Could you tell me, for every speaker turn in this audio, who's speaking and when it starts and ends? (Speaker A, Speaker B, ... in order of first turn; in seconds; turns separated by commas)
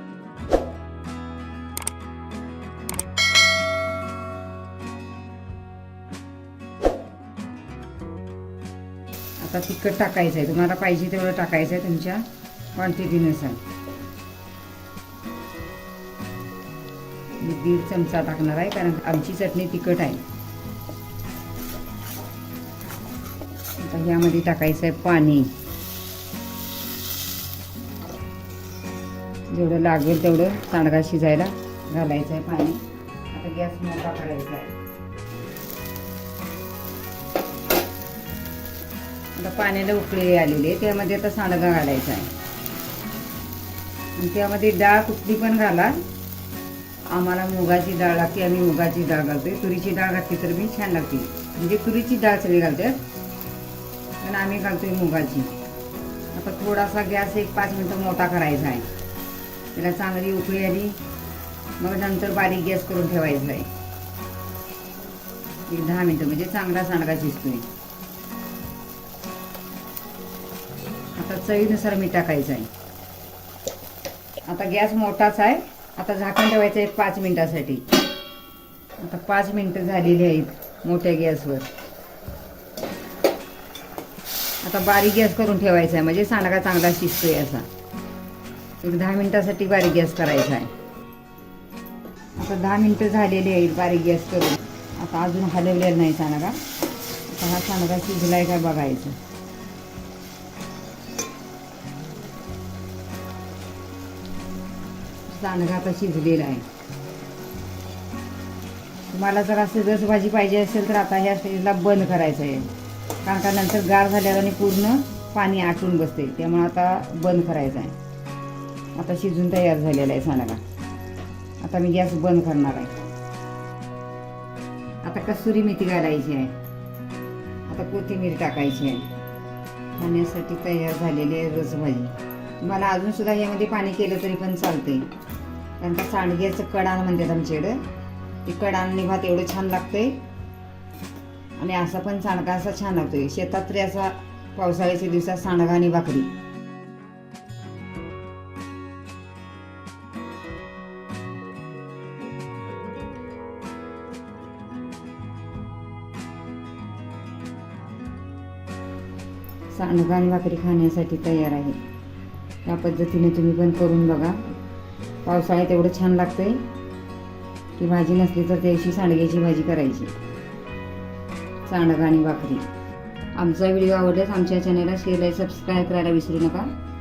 Speaker A: 9.4-13.6, Speaker A: 17.4-20.2, Speaker A: 23.8-25.5, Speaker A: 29.5-34.7, Speaker A: 39.4-42.3, Speaker A: 44.2-46.0, Speaker A: 47.1-53.0, Speaker A: 54.2-55.5, Speaker A: 56.3-58.9, Speaker A: 59.7-61.0, Speaker A: 61.8-63.7, Speaker A: 65.7-67.7, Speaker A: 71.2-72.7, Speaker A: 74.5-77.9, Speaker A: 79.0-81.7, Speaker A: 84.6-87.7, Speaker A: 88.8-90.7, Speaker A: 92.4-96.6, Speaker A: 97.3-99.2, Speaker A: 105.3-106.7, Speaker A: 109.1-112.7, Speaker A: 113.2-118.0, Speaker A: 119.0-120.6, Speaker A: 121.6-122.9, Speaker A: 125.0-126.6, Speaker A: 127.7-129.1, Speaker A: 130.0-135.1, Speaker A: 135.8-137.8, Speaker A: 138.4-140.2, Speaker A: 141.6-146.3, Speaker A: 159.7-161.8, Speaker A: 162.7-164.4, Speaker A: 165.2-166.6, Speaker A: 167.8-170.1, Speaker A: 171.7-172.7, Speaker A: 173.3-176.7